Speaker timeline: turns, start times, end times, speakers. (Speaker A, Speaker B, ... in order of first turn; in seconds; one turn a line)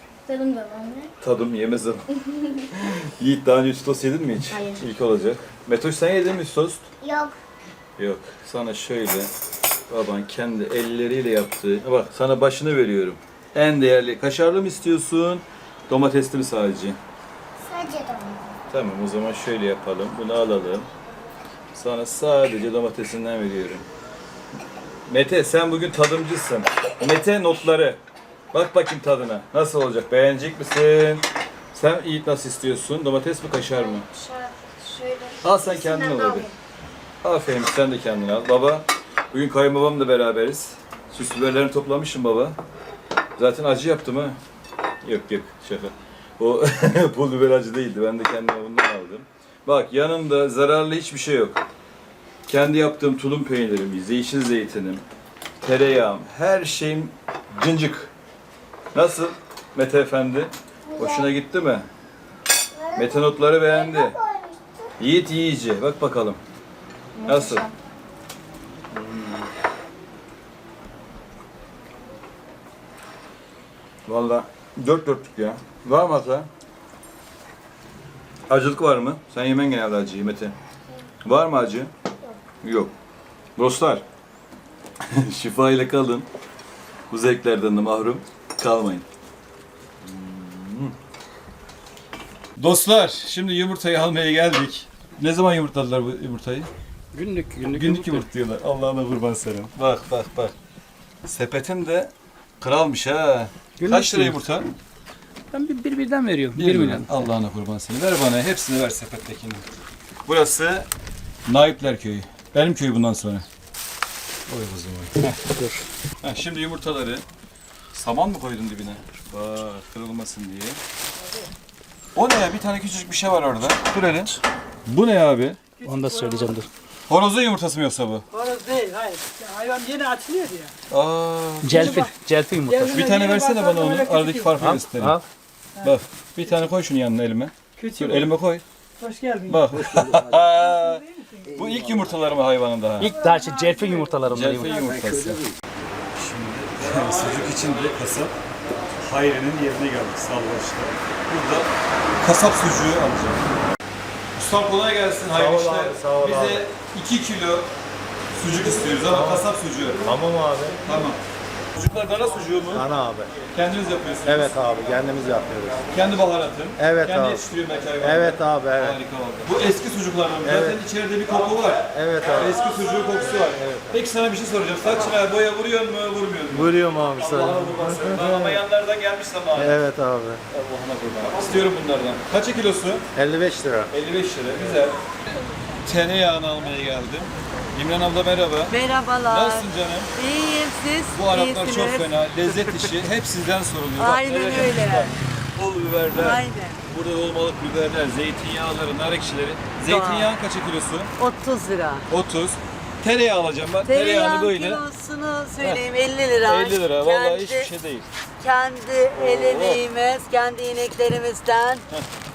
Speaker A: 0.3-1.1
Speaker B: 1.2-6.9
Speaker A: 4.5-4.8
Speaker A: 7.0-7.4
Speaker B: 8.0-9.3
Speaker B: 9.9-17.0
Speaker A: 17.6-18.5
Speaker B: 18.7-20.9
Speaker B: 21.7-23.9
Speaker B: 25.1-28.0
Speaker B: 28.5-34.1
Speaker A: 34.0-36.5
Speaker B: 35.4-36.5
Speaker B: 37.2-42.6
Speaker B: 43.4-44.4
Speaker B: 45.0-51.6
Speaker B: 52.5-55.0
Speaker B: 55.6-58.1
Speaker B: 58.9-61.9
Speaker A: 60.9-61.3
Speaker A: 62.7-64.8
Speaker B: 62.9-64.2
Speaker B: 65.0-66.4
Speaker A: 67.2-67.7
Speaker B: 67.2-67.7
Speaker B: 68.9-69.5
Speaker B: 74.1-76.5
Speaker B: 78.5-80.5
Speaker B: 81.2-81.9
Speaker B: 82.6-82.9
Speaker B: 83.6-84.0
Speaker B: 85.1-86.3
Speaker B: 87.1-89.1
Speaker B: 90.0-90.9
Speaker B: 92.6-96.7
Speaker C: 97.1-98.2
Speaker B: 97.6-100.5
Speaker B: 101.2-104.7
Speaker C: 103.8-104.3
Speaker C: 105.5-107.2
Speaker B: 106.5-109.7
Speaker B: 110.2-110.9
Speaker B: 111.5-113.5
Speaker B: 114.5-115.4
Speaker C: 115.4-115.7
Speaker B: 116.2-117.2
Speaker B: 117.9-120.8
Speaker B: 122.2-125.6
Speaker D: 125.8-126.7
Speaker C: 125.9-126.7
Speaker B: 127.1-128.3
Speaker D: 128.3-130.7
Speaker B: 130.9-132.1
Speaker C: 131.6-133.0
Speaker D: 131.7-132.1
Speaker D: 132.7-134.6
Speaker B: 132.8-135.2
Speaker E: 134.6-135.2
Speaker B: 135.8-138.6
Speaker D: 137.8-138.3
Speaker D: 139.0-139.7
Speaker B: 139.5-143.2
Speaker D: 140.5-141.7
Speaker C: 143.0-145.4
Speaker D: 143.1-145.0
Speaker B: 144.2-145.4
Speaker B: 146.2-148.4
Speaker B: 148.9-153.4
Speaker B: 154.3-157.7
Speaker E: 155.3-156.6
Speaker B: 158.3-160.2
Speaker E: 159.1-160.8
Speaker B: 160.8-161.2
Speaker B: 161.8-162.9
Speaker E: 162.7-163.3
Speaker B: 163.5-164.7
Speaker E: 164.2-165.9
Speaker B: 165.9-179.8
Speaker E: 166.8-167.4
Speaker E: 168.0-169.0
Speaker E: 170.4-170.8
Speaker E: 171.9-172.7
Speaker E: 173.4-174.0
Speaker E: 176.5-178.6
Speaker E: 179.6-180.4
Speaker B: 180.5-183.1
Speaker E: 183.2-183.9
Speaker B: 183.9-185.0
Speaker B: 185.8-190.1
Speaker F: 188.7-192.9
Speaker B: 191.1-201.1
Speaker F: 194.0-195.2
Speaker F: 196.1-196.8
Speaker F: 199.9-200.3
Speaker F: 201.2-202.0
Speaker B: 202.1-204.8
Speaker F: 203.8-207.7
Speaker B: 206.4-208.1
Speaker F: 208.4-211.9
Speaker B: 209.2-209.8